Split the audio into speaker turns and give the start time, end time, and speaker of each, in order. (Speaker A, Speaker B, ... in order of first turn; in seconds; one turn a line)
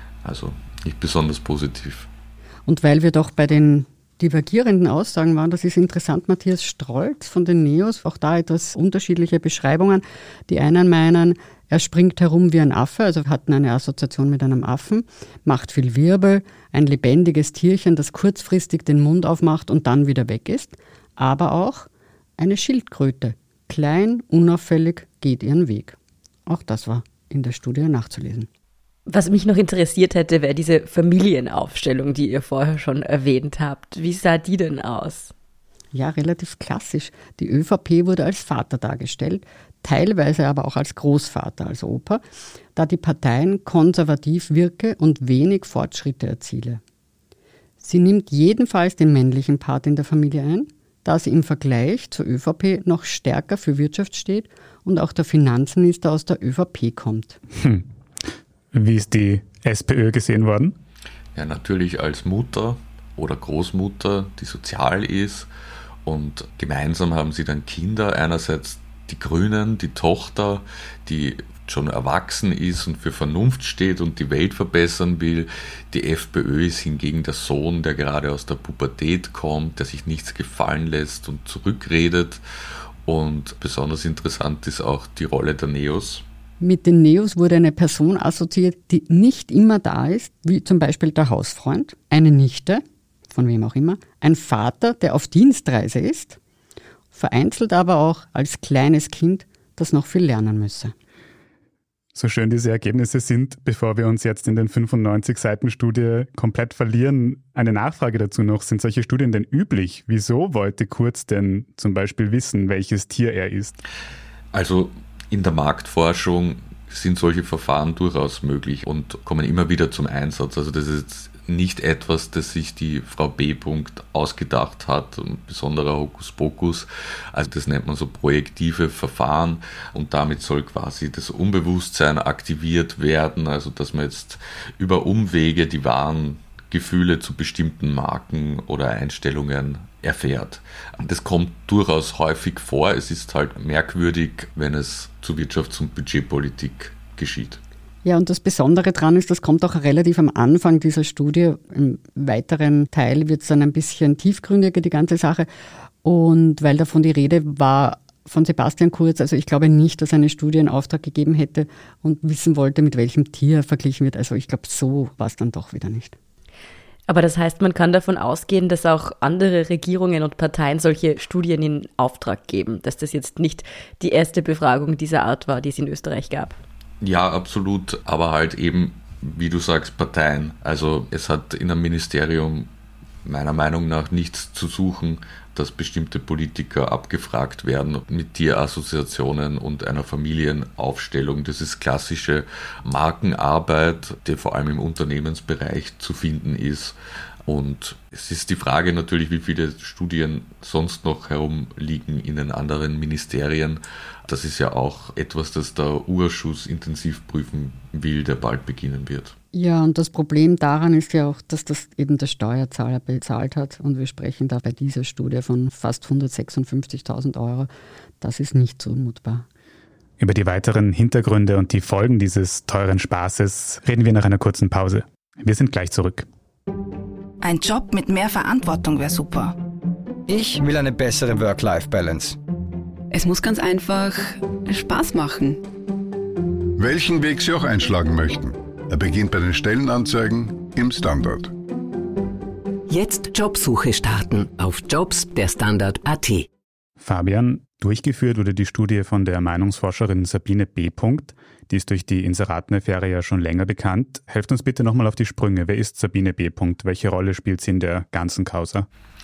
Speaker A: 0.2-2.1
Speaker B: 2.6-28.5
Speaker C: 29.1-35.3
Speaker B: 35.9-42.2
Speaker B: 42.8-46.8
Speaker B: 47.8-57.4
Speaker D: 57.5-57.8
Speaker D: 58.7-60.8
Speaker A: 61.3-65.5
Speaker A: 66.0-82.4
Speaker A: 83.0-86.2
Speaker B: 86.6-96.4
Speaker B: 97.1-100.9
Speaker D: 102.1-113.8
Speaker A: 114.5-147.6
Speaker B: 148.0-155.5
Speaker B: 156.0-166.1
Speaker C: 167.1-176.6
Speaker A: 177.0-182.7
Speaker A: 183.2-196.9
Speaker A: 197.4-209.3
Speaker B: 209.5-217.7
Speaker B: 218.2-219.4
Speaker D: 220.2-226.3
Speaker E: 227.4-229.6
Speaker F: 230.3-232.4
Speaker G: 233.1-235.6
Speaker H: 236.8-241.5
Speaker I: 242.9-246.5
Speaker D: 247.0-258.9